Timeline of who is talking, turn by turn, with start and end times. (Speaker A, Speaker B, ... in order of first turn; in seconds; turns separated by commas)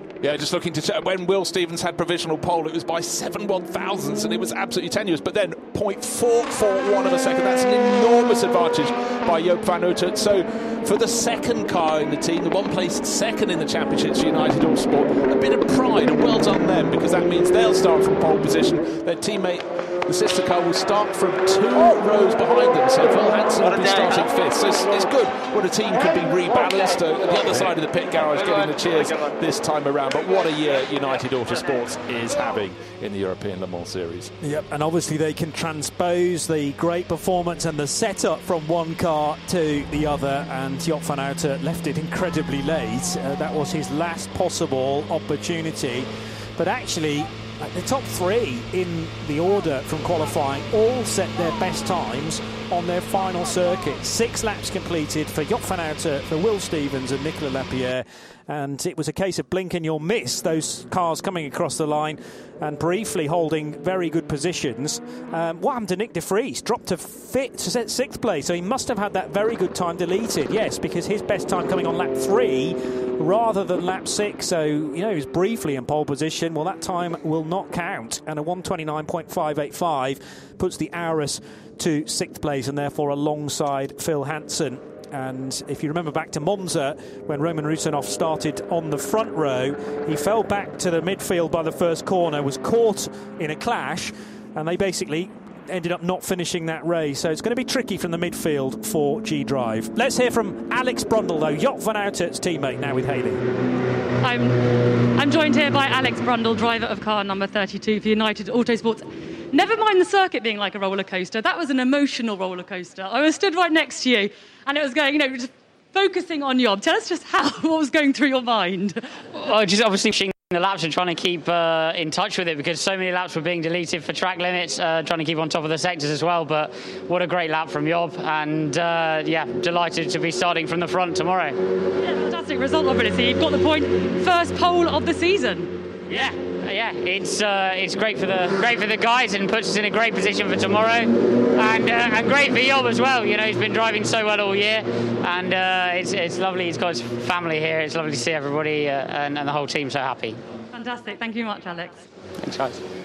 Speaker A: 0.2-34.3, Speaker B: 34.4-103.4, Speaker C: 104.2-119.2, Speaker D: 119.3-131.6, Speaker C: 132.0-135.8, Speaker D: 136.1-150.4, Speaker C: 150.7-151.9, Speaker D: 152.4-152.8